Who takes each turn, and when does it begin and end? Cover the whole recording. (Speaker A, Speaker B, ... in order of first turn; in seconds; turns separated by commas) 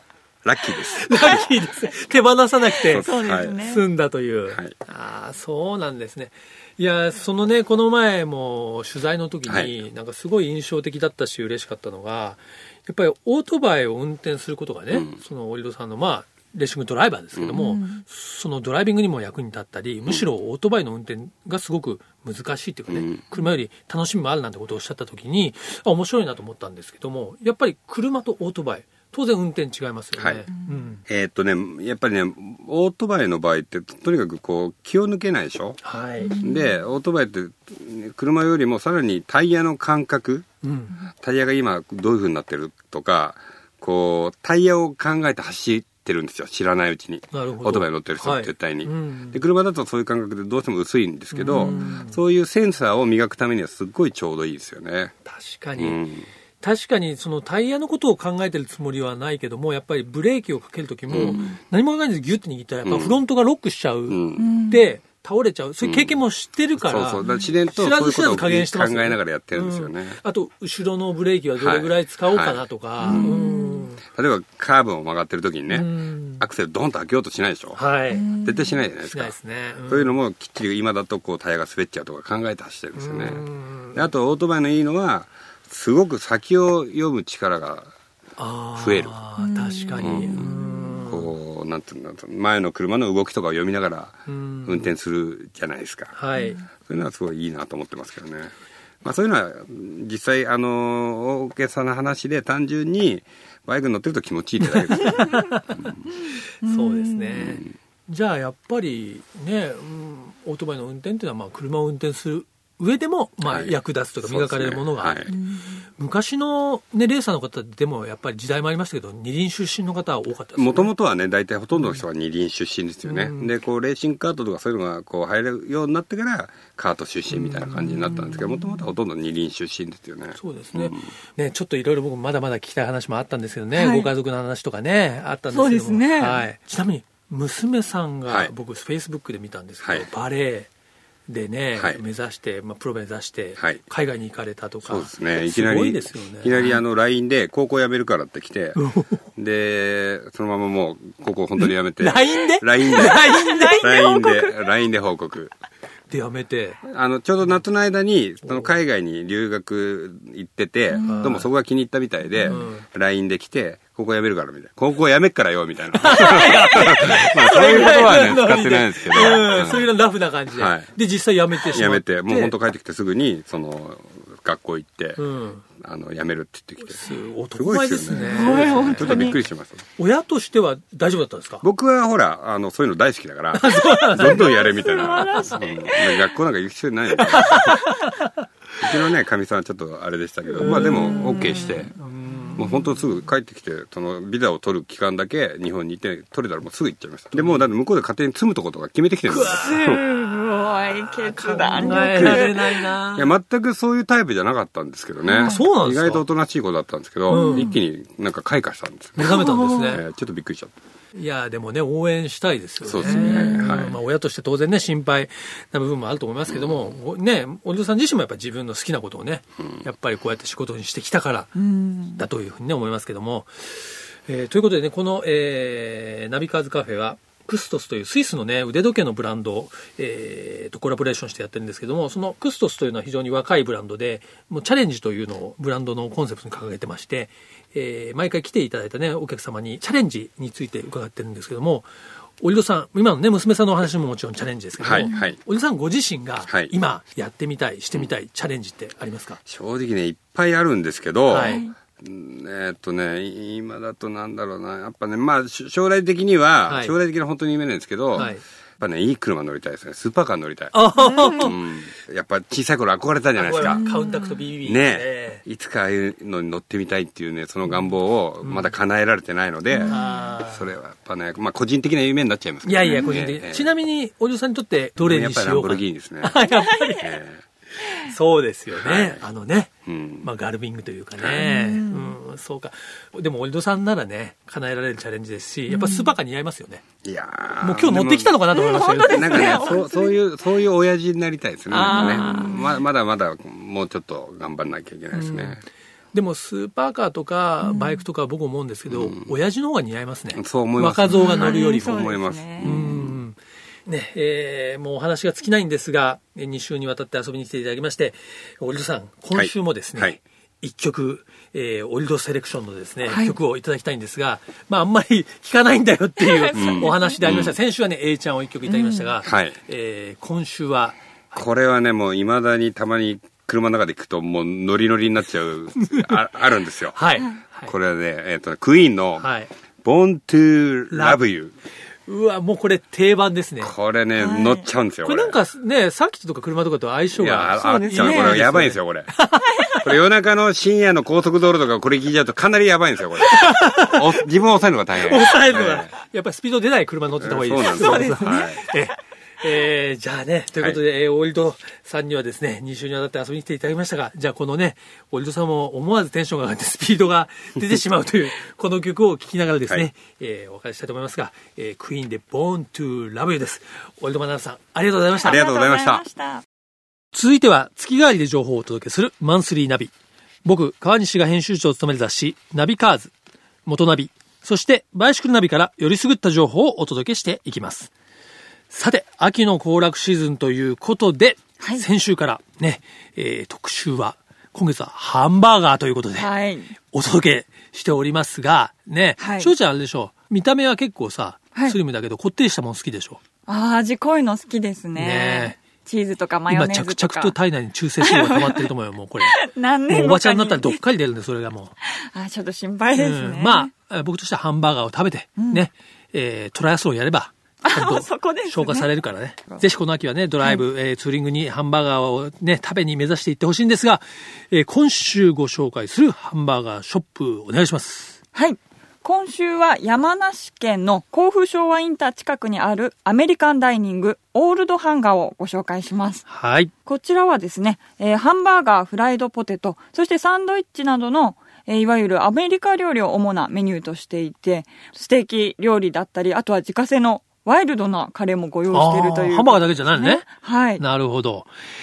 Speaker A: 0.4-1.5, Speaker B: 0.8-31.0, Speaker C: 2.9-3.8, Speaker A: 2.9-3.5, Speaker C: 17.5-18.0, Speaker A: 22.9-23.2, Speaker A: 30.2-30.5, Speaker A: 31.1-35.8, Speaker B: 35.8-36.4, Speaker C: 36.2-36.8, Speaker A: 36.4-40.5, Speaker B: 40.6-40.9, Speaker A: 41.1-55.1, Speaker B: 47.3-49.4, Speaker B: 51.3-52.2, Speaker C: 51.6-51.9, Speaker B: 55.2-56.1, Speaker A: 55.8-56.2, Speaker B: 56.6-74.0, Speaker A: 61.1-61.5, Speaker A: 62.8-63.2, Speaker A: 64.1-64.5, Speaker C: 64.3-64.8, Speaker A: 65.8-66.2, Speaker A: 66.8-70.2, Speaker A: 71.6-73.5, Speaker C: 73.0-73.9, Speaker A: 74.0-77.8, Speaker B: 75.7-76.4, Speaker B: 77.8-78.3, Speaker C: 78.1-78.8, Speaker A: 78.3-79.3, Speaker B: 79.1-80.1, Speaker A: 79.9-87.9, Speaker B: 83.0-84.0, Speaker B: 88.4-91.3, Speaker A: 88.8-89.2, Speaker C: 89.4-91.1, Speaker A: 90.0-90.5, Speaker A: 91.0-96.1, Speaker B: 94.3-94.9, Speaker B: 96.1-96.6, Speaker C: 96.3-96.6, Speaker A: 96.8-106.0, Speaker B: 104.6-105.6, Speaker C: 105.1-105.5, Speaker C: 106.6-107.4, Speaker B: 106.6-115.3, Speaker A: 107.3-107.7, Speaker A: 113.4-115.3, Speaker C: 115.3-115.8, Speaker B: 116.0-120.9, Speaker A: 120.5-131.1, Speaker B: 123.0-123.5, Speaker B: 127.3-128.4, Speaker B: 130.4-140.7, Speaker C: 133.7-134.1, Speaker C: 135.5-136.4, Speaker B: 141.3-146.8, Speaker A: 141.8-142.0, Speaker A: 144.9-148.8, Speaker B: 148.8-149.2, Speaker A: 149.3-155.5, Speaker B: 151.6-154.0, Speaker C: 153.1-154.6, Speaker B: 156.1-156.8, Speaker A: 156.8-169.9, Speaker C: 160.9-161.3, Speaker B: 161.0-161.5, Speaker B: 162.4-162.8, Speaker B: 166.0-172.5, Speaker A: 170.5-170.9, Speaker A: 171.7-175.2, Speaker B: 175.2-175.6, Speaker A: 175.8-177.0, Speaker B: 176.9-179.4, Speaker A: 177.5-179.8, Speaker C: 178.1-179.4, Speaker B: 180.0-181.6, Speaker A: 181.6-187.9, Speaker B: 183.5-185.6, Speaker C: 184.3-186.2, Speaker B: 187.2-188.3, Speaker A: 188.8-191.9, Speaker B: 190.5-192.8, Speaker C: 191.2-191.5, Speaker A: 192.5-200.0, Speaker B: 197.3-197.6, Speaker B: 199.3-200.0, Speaker C: 199.6-202.8, Speaker B: 200.8-203.3, Speaker A: 201.8-210.7, Speaker C: 205.2-205.6, Speaker B: 205.4-206.2, Speaker B: 207.3-207.7, Speaker C: 207.3-207.8, Speaker B: 209.2-210.0, Speaker B: 211.1-221.6, Speaker A: 212.8-214.0, Speaker C: 213.0-213.8, Speaker C: 221.6-222.2, Speaker B: 222.2-241.9, Speaker B: 242.4-249.4, Speaker A: 244.8-245.4, Speaker A: 249.4-263.8, Speaker B: 251.3-251.6, Speaker C: 251.3-251.7, Speaker B: 256.7-256.9, Speaker B: 258.1-258.4, Speaker B: 260.7-261.6, Speaker C: 261.0-261.5, Speaker B: 263.4-265.4, Speaker C: 263.6-264.4, Speaker A: 264.6-273.7, Speaker B: 268.4-268.7, Speaker C: 269.7-270.0, Speaker B: 269.9-270.6, Speaker B: 272.6-277.1, Speaker C: 272.8-273.1, Speaker A: 275.0-276.4, Speaker C: 276.5-277.1, Speaker A: 277.0-277.4, Speaker B: 277.8-286.8, Speaker A: 278.8-279.2, Speaker A: 279.9-280.3, Speaker A: 281.2-281.4, Speaker C: 281.4-282.1, Speaker C: 285.7-286.1, Speaker A: 287.0-288.4, Speaker B: 287.6-289.8, Speaker C: 288.5-290.1, Speaker A: 289.0-295.6, Speaker B: 291.7-292.7, Speaker C: 291.7-292.6, Speaker B: 295.1-295.6, Speaker B: 296.1-321.4, Speaker C: 297.6-298.0, Speaker A: 298.9-299.2, Speaker A: 300.3-303.2, Speaker C: 301.1-302.8, Speaker A: 309.3-310.2, Speaker C: 313.1-313.4, Speaker C: 316.2-317.2, Speaker A: 316.5-317.6, Speaker C: 318.7-319.1, Speaker A: 319.2-319.6, Speaker A: 321.3-327.0, Speaker B: 325.8-326.2, Speaker B: 326.9-327.7, Speaker A: 327.6-329.3, Speaker B: 329.2-329.5, Speaker A: 329.8-331.5, Speaker B: 330.9-331.2, Speaker B: 332.1-333.7, Speaker A: 333.6-335.4, Speaker C: 334.2-334.7, Speaker B: 335.0-339.8, Speaker A: 337.1-339.1, Speaker C: 337.6-338.4, Speaker A: 339.8-345.9, Speaker B: 343.2-344.2, Speaker B: 345.0-365.4, Speaker A: 347.2-348.6, Speaker C: 347.7-348.7, Speaker C: 365.2-366.4, Speaker A: 365.2-366.0, Speaker B: 367.1-369.9, Speaker B: 370.4-373.1, Speaker B: 373.6-377.9, Speaker B: 378.7-386.3, Speaker C: 386.2-386.7, Speaker B: 386.9-393.2, Speaker C: 389.2-389.5, Speaker C: 393.5-397.3, Speaker B: 394.9-395.6, Speaker B: 396.5-401.7, Speaker C: 398.0-398.7, Speaker C: 399.2-400.8, Speaker C: 401.8-403.7, Speaker B: 402.9-418.2, Speaker C: 405.4-405.6, Speaker C: 407.6-408.9, Speaker C: 418.3-426.2, Speaker B: 426.3-426.7, Speaker C: 426.9-440.8, Speaker B: 438.7-440.3, Speaker B: 440.8-441.5